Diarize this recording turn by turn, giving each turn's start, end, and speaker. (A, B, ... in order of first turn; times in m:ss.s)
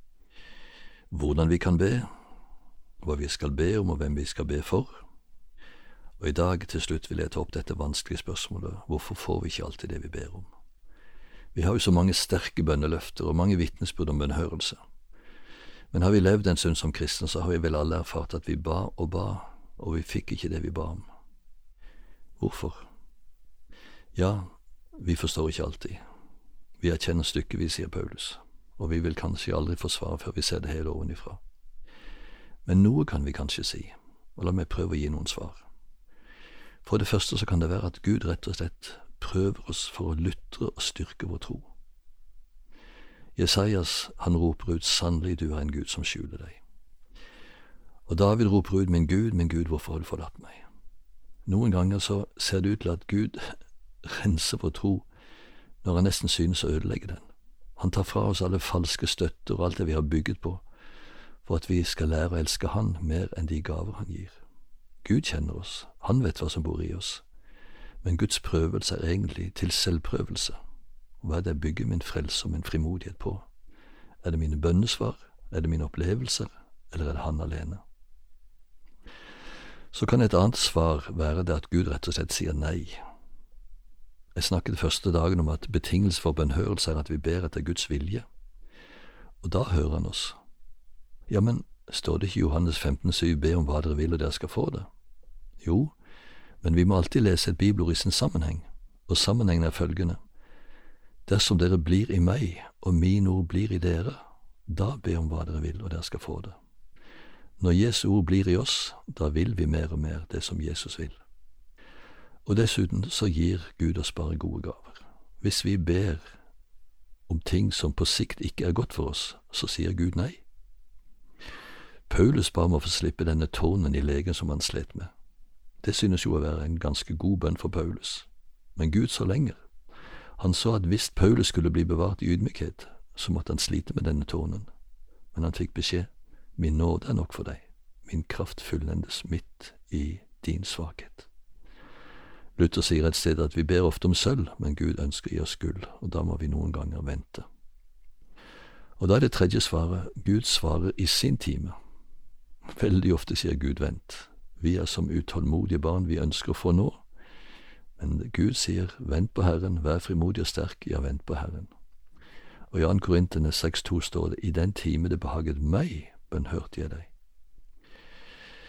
0:01.1-0:02.1 A
0:03.0-0:05.0 A
0:06.2-0:10.5 A
0:11.5-0:14.8 A
0:15.9-0:21.1 A
0:22.4-0:22.9 A
0:24.1-0:26.0 A
0:26.8-0:31.4 A
0:32.6-0:35.6 A
0:36.8-0:41.7 A
0:43.4-0:46.6 A
0:48.1-0:50.6 A
0:51.4-0:55.1 A
0:55.8-0:57.2 A
0:57.8-1:00.6 A
1:01.4-1:04.4 A
1:05.0-1:07.2 A
1:08.0-1:10.6 A
1:11.2-1:13.5 A
1:14.2-1:17.8 A
1:19.9-1:23.0 A
1:24.3-1:28.2 A
1:29.4-1:30.4 A
1:31.3-1:34.9 A
1:35.6-1:35.9 A
1:36.6-1:40.2 A
1:41.3-1:46.6 A
1:47.6-1:51.2 A
1:52.4-1:56.2 A
1:57.3-2:00.4 A
2:02.1-2:05.1 A
2:05.8-2:09.6 A
2:10.4-2:14.7 A
2:15.3-2:21.3 A
2:22.6-2:27.5 A
2:29.0-2:31.7 A
2:32.8-2:37.0 A
2:38.0-2:41.7 A
2:42.7-2:47.1 A